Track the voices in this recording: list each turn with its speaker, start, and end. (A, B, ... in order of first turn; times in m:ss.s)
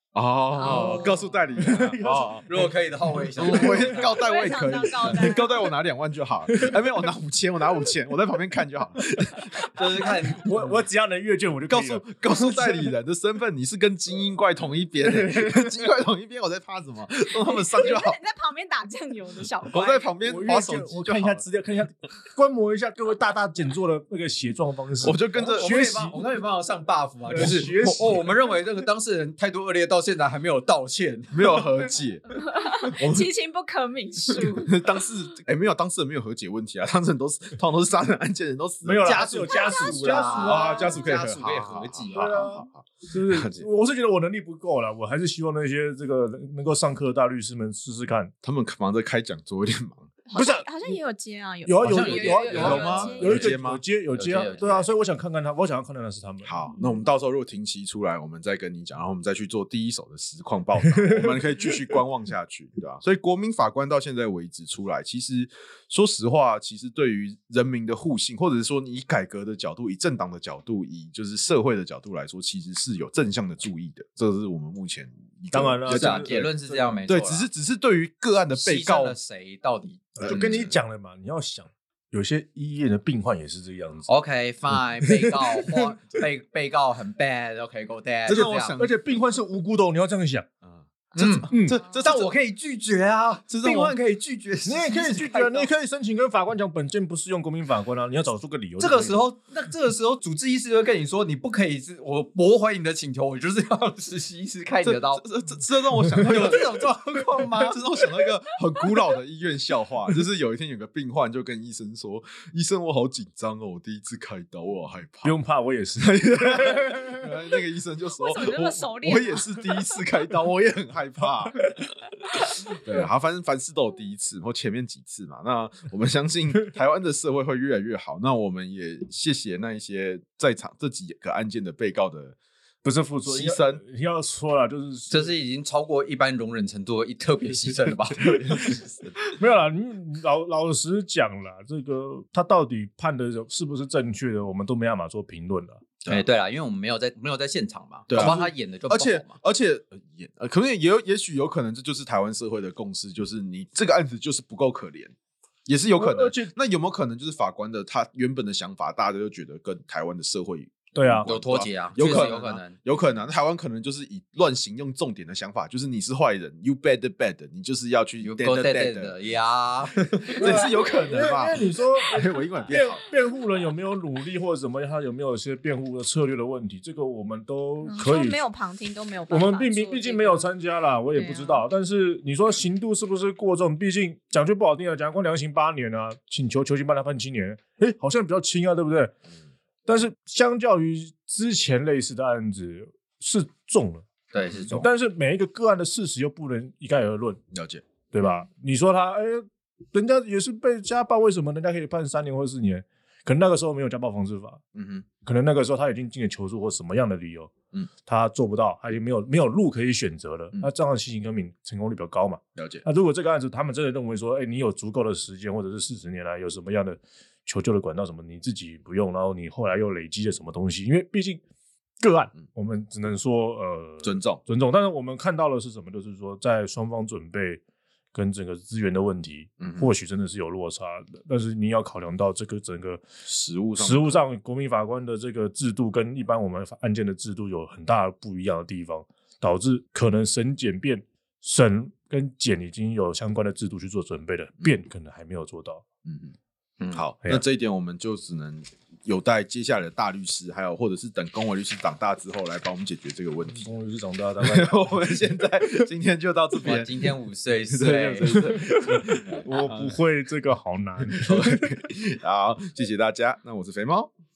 0:00.1-0:02.6 A
0:00.6-0:01.4 B
0:00.6-0:01.3 C
0:01.6-0:02.7 D
0:02.4-0:04.1 C
0:03.4-0:10.5 A
0:03.4-0:03.9 D
0:03.9-0:05.7 B
0:06.5-0:06.8 D
0:09.1-0:09.7 D
0:09.7-0:10.6 C
0:10.3-0:12.9 D
0:11.7-0:18.2 A
0:15.1-0:15.6 D
0:17.4-0:20.1 B
0:19.7-0:21.4 A
0:20.2-0:26.2 D
0:25.0-0:25.8 A
0:25.3-0:31.6 C
0:27.3-0:28.2 D
0:27.4-0:28.2 A
0:31.3-0:32.2 A
0:32.3-0:35.0 B
0:32.8-0:33.3 A
0:34.3-0:39.5 A
0:38.8-0:40.9 D
0:39.0-0:42.5 C
0:39.4-0:41.1 B
0:40.2-0:43.7 A
0:42.1-0:48.3 D
0:48.4-0:50.1 A
0:50.3-0:53.5 B
0:50.3-0:50.7 D
0:51.6-0:56.5 D
0:51.8-0:53.5 C
0:52.5-0:53.8 A
0:54.1-0:54.9 C
0:56.4-1:19.2 A
0:56.8-0:57.0 B
1:00.8-1:01.7 D
1:15.5-1:17.0 D
1:15.9-1:17.5 C
1:18.5-1:20.2 C
1:20.2-1:24.1 D
1:20.2-1:20.7 A
1:24.1-1:28.8 C
1:24.8-1:26.0 D
1:28.2-1:28.9 A
1:28.8-1:30.4 D
1:30.6-1:32.3 A
1:31.2-1:35.7 C
1:31.5-1:31.8 D
1:33.5-1:34.0 A
1:34.6-1:39.2 D
1:38.8-1:45.2 C
1:44.8-1:55.4 A
1:46.2-1:48.3 C
1:55.2-1:57.2 D
1:56.0-2:12.4 A
1:58.1-2:00.0 B
2:12.8-2:15.3 D
2:13.2-2:13.8 A
2:15.1-2:18.8 C
2:17.9-2:18.9 A
2:19.4-2:25.8 D
2:26.0-2:29.3 C
2:28.1-2:35.1 A
2:35.6-2:49.1 A
2:36.0-2:36.5 D
2:40.9-2:41.3 D
2:41.2-2:42.8 C
2:48.2-2:50.3 C
2:50.3-2:53.0 A
2:50.3-2:58.4 D
2:57.8-3:00.5 B
2:59.3-3:09.1 D
3:01.1-3:01.6 B
3:09.8-3:14.0 D
3:14.3-3:14.8 C
3:14.7-3:17.4 D
3:17.5-3:17.8 A
3:18.1-3:24.6 D
3:24.7-3:25.0 A
3:25.2-3:27.5 D
3:28.0-3:41.4 D
3:32.6-3:32.8 A
3:42.0-3:47.6 D
3:44.0-3:44.4 A
3:48.1-3:53.0 D
3:49.6-3:49.9 A
3:53.2-3:54.2 A
3:53.8-4:05.8 D
4:06.0-4:06.3 A
4:06.9-4:13.7 A
4:13.5-4:15.8 D
4:14.4-4:17.1 A
4:16.6-4:18.4 C
4:17.7-4:19.9 A
4:18.5-4:21.6 D
4:21.1-4:24.1 A